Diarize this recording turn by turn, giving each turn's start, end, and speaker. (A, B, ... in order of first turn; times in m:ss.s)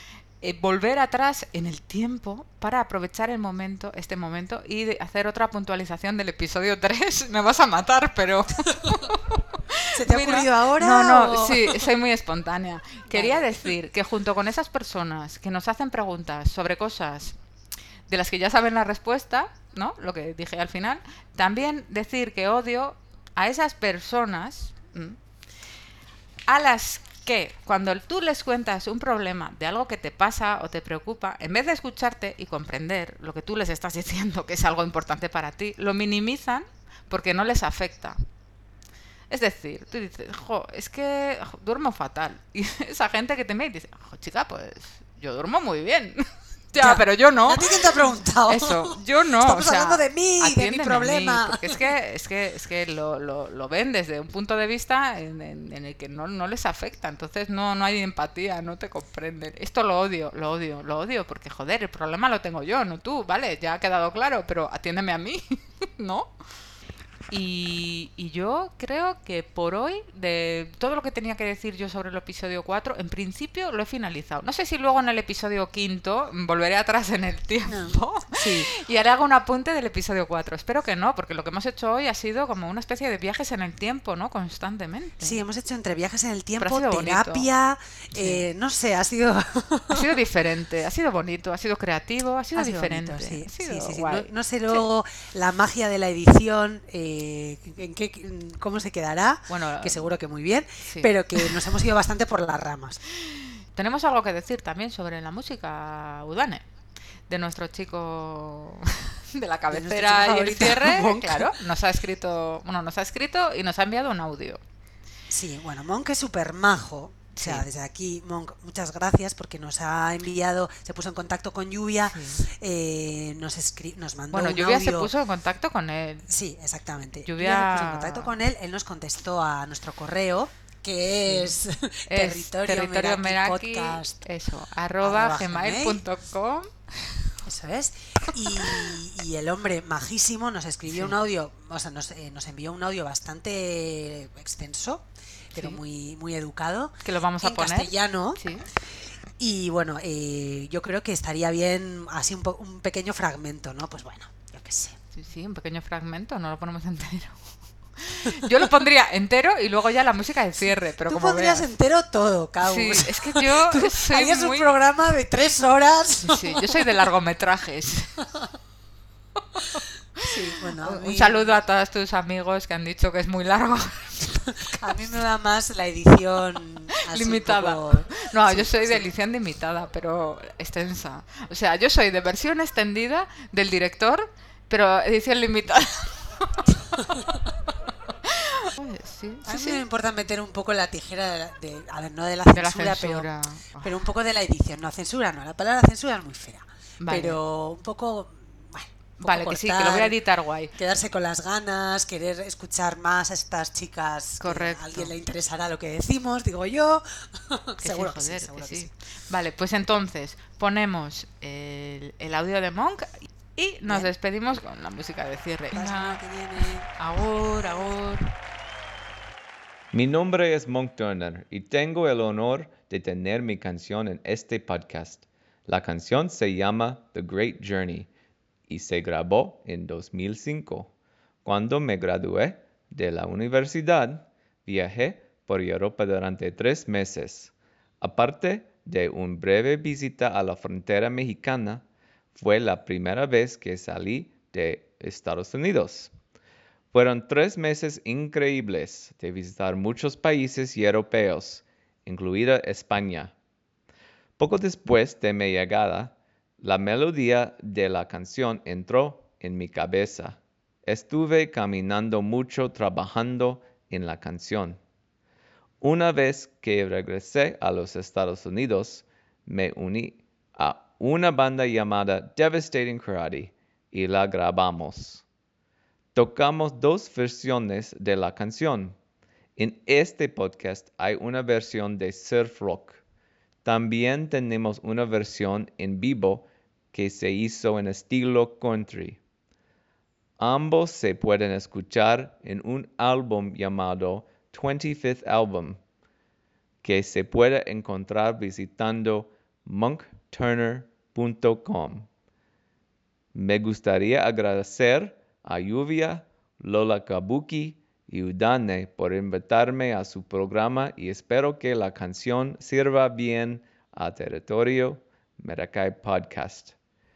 0:00.4-0:17.4 A
0:09.9-0:11.9 B
0:13.1-0:13.7 B
0:18.1-0:25.2 A
0:26.5-0:38.2 A
0:39.3-0:47.9 A
0:46.8-0:51.9 B
0:48.5-1:06.3 A
1:07.3-1:25.4 A
1:17.7-1:18.7 B
1:25.2-1:30.1 B
1:26.6-1:27.5 A
1:28.1-1:28.4 A
1:29.9-1:34.8 A
1:32.6-1:43.0 B
1:39.5-1:40.1 A
1:40.9-1:41.8 A
1:43.3-1:46.6 A
1:47.3-1:54.6 A
1:49.7-1:51.6 B
1:55.3-2:05.1 B
1:57.3-1:57.6 A
2:02.1-2:02.4 A
2:04.3-2:06.3 A
2:06.2-2:14.2 B
2:07.2-2:08.3 A
2:11.3-2:11.6 A
2:12.1-2:17.3 A
2:15.0-2:16.0 B
2:17.4-2:28.4 B
2:18.5-2:18.9 A
2:25.6-2:25.8 A
2:27.0-2:28.7 A
2:29.4-2:35.0 B
2:35.1-2:37.4 A
2:38.0-2:41.7 A
2:38.2-2:38.7 B
2:41.0-2:46.8 B
2:42.6-2:44.7 A
2:46.2-2:48.2 A
2:49.6-2:50.3 A
2:50.2-2:51.4 B
2:50.8-2:55.0 A
2:54.7-2:59.1 B
2:57.1-3:07.4 A
3:07.0-3:07.2 B
3:08.2-3:09.8 A
3:09.4-3:13.3 B
3:12.5-3:14.0 A
3:13.8-3:20.2 B
3:17.0-3:17.4 A
3:19.2-3:20.7 A
3:20.7-3:28.9 B
3:24.4-3:25.1 A
3:27.8-3:38.3 A
3:35.7-3:36.9 B
3:39.9-3:48.1 C
3:48.7-3:50.9 C
3:51.4-4:01.8 C
4:02.4-4:06.1 C
4:06.9-4:13.3 C
4:14.4-4:24.8 C
4:25.8-4:35.2 C
4:36.1-4:38.9 C
4:39.6-4:43.0 C
4:43.6-4:49.2 C
4:50.4-4:55.8 C
4:56.8-5:02.1 C
5:03.3-5:16.7 C